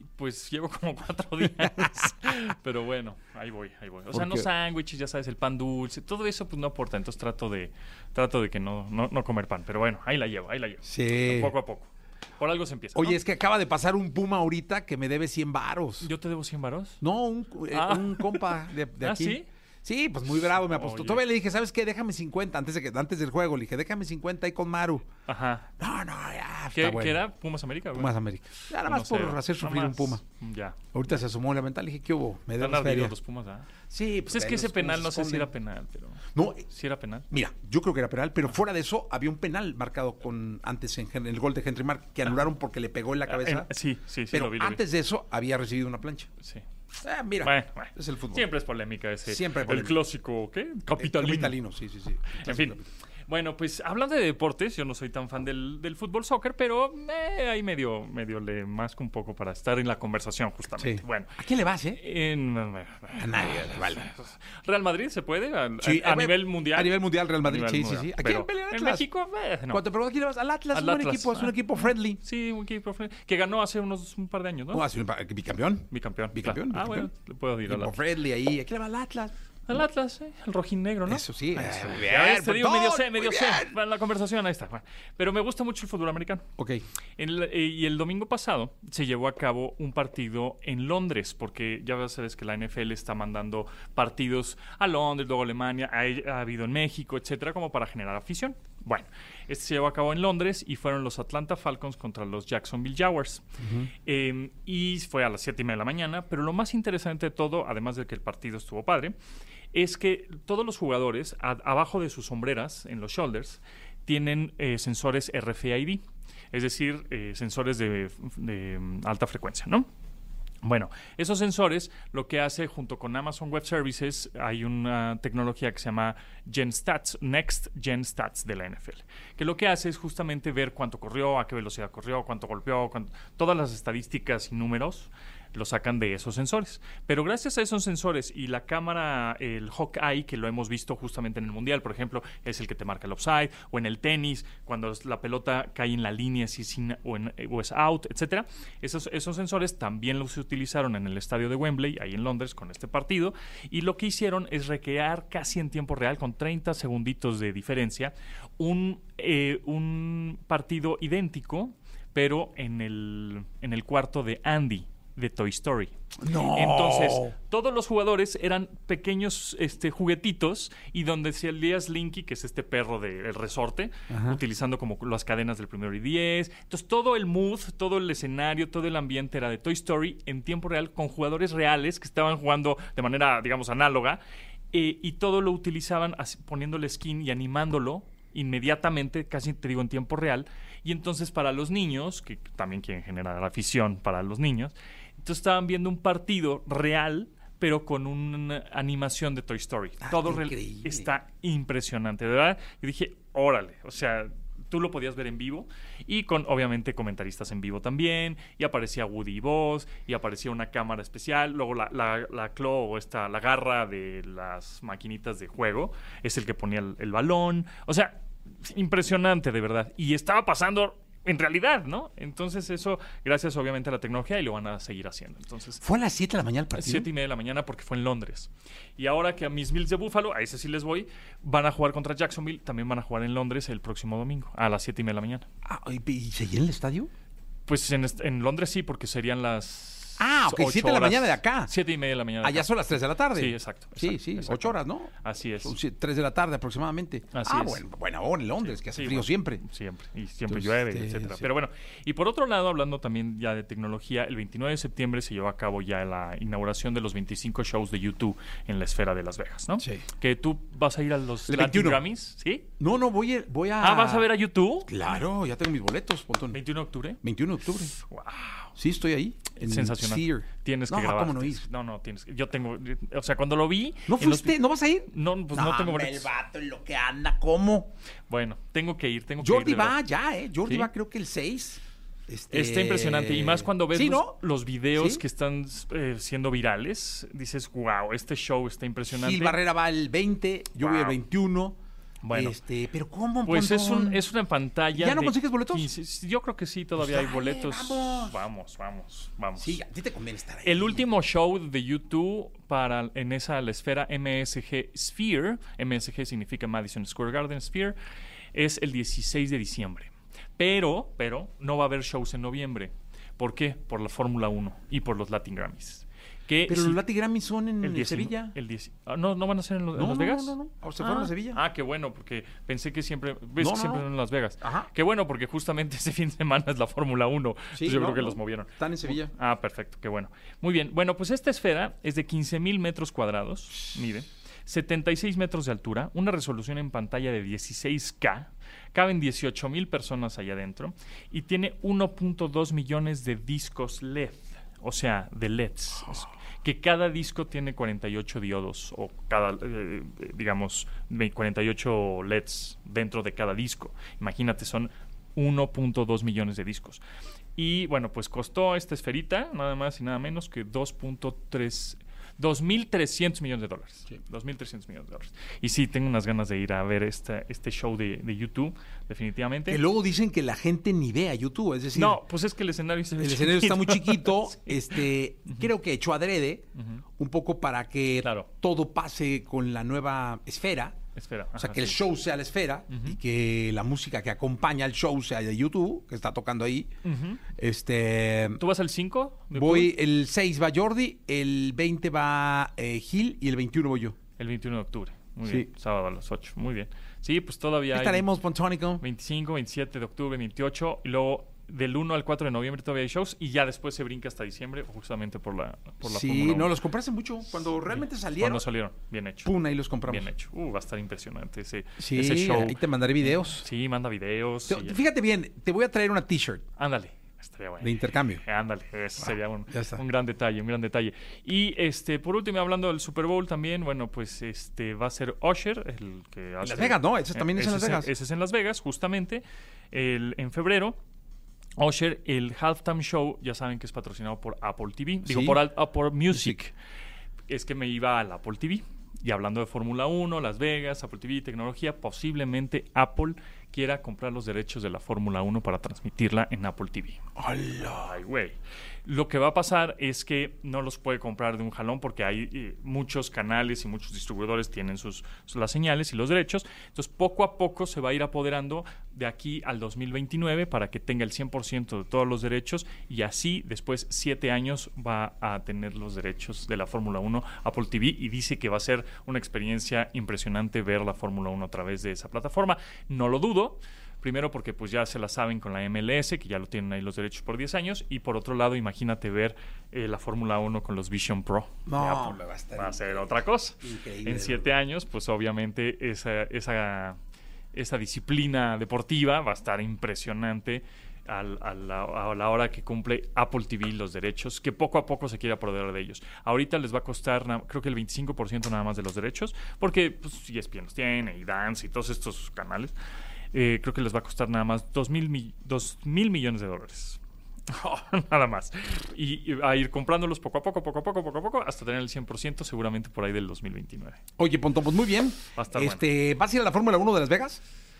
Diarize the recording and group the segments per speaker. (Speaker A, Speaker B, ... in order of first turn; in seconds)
Speaker A: 0.1-13.2, 16.0-17.0, 17.7-19.5, 20.6-21.2, 25.2-25.7, 26.7-28.1, 28.8-30.8, 32.6-33.7, 34.2-37.2, 43.3-44.8, 47.4-51.5, 52.3-61.4, 61.9-69.8, 70.7-74.8, 75.9-77.9, 79.7-86.4, 87.2-103.4, 104.0-109.1, 109.7-119.9, 120.6-184.2, 184.7-225.8, 226.7-235.4, 237.7-245.7, 247.3-247.8, 248.6-262.7, 263.8-265.1, 266.5-267.2, 268.0-268.7, 269.6-276.3, 278.3-280.0, 280.6-280.9, 282.5-289.6, 290.8-291.2, 292.2-292.6, 293.4-299.8, 300.6-307.9, 308.5-317.0, 317.8-357.0, 357.6-369.8, 371.9-375.7, 376.8-377.0, 378.2-378.5, 381.1-382.0, 382.9-383.2, 387.0-387.4, 388.6-389.9, 394.4-398.2, 399.0-406.7, 407.9-409.5, 410.1-415.0, 416.8-431.0, 431.8-436.7, 437.5-447.2, 447.8-487.2, 487.7-502.9, 503.5-514.2, 515.5-516.0
Speaker B: 1.4-2.1, 4.1-4.5, 10.8-11.5, 12.9-16.1, 17.0-25.1, 25.8-27.2, 27.9-30.2, 30.9-33.1, 33.9-35.5, 36.3-36.6, 37.3-43.7, 44.3-46.3, 47.0-48.5, 49.2-50.0, 51.0-52.9, 60.8-62.0, 63.1-64.1, 65.8-69.0, 69.7-72.2, 74.7-77.1, 77.6-79.3, 81.0-83.8, 103.6-103.9, 166.2-167.3, 174.1-174.4, 200.0-201.1, 225.8-227.1, 235.6-237.1, 240.2-241.7, 242.4-249.6, 250.5-251.4, 259.8-260.0, 261.4-262.0, 262.8-264.3, 264.8-266.6, 267.2-267.9, 268.8-271.6, 274.1-277.9, 279.4-284.4, 284.9-285.2, 289.1-291.8, 292.3-294.2, 294.9-295.9, 297.0-298.4, 299.6-301.1, 316.7-318.5, 319.9-321.6, 323.6-324.1, 324.6-324.9, 327.7-329.3, 369.7-372.2, 373.2-376.7, 377.2-380.9, 381.5-386.9, 387.5-388.6, 389.5-394.1, 395.4-395.7, 397.9-399.0, 406.0-408.6, 409.4-410.3, 412.0-413.7, 414.7-416.6, 417.8-418.4, 419.2-420.0, 426.6-428.1, 435.2-435.6, 436.3-436.6, 447.4-448.2, 481.9-484.7, 514.4-517.6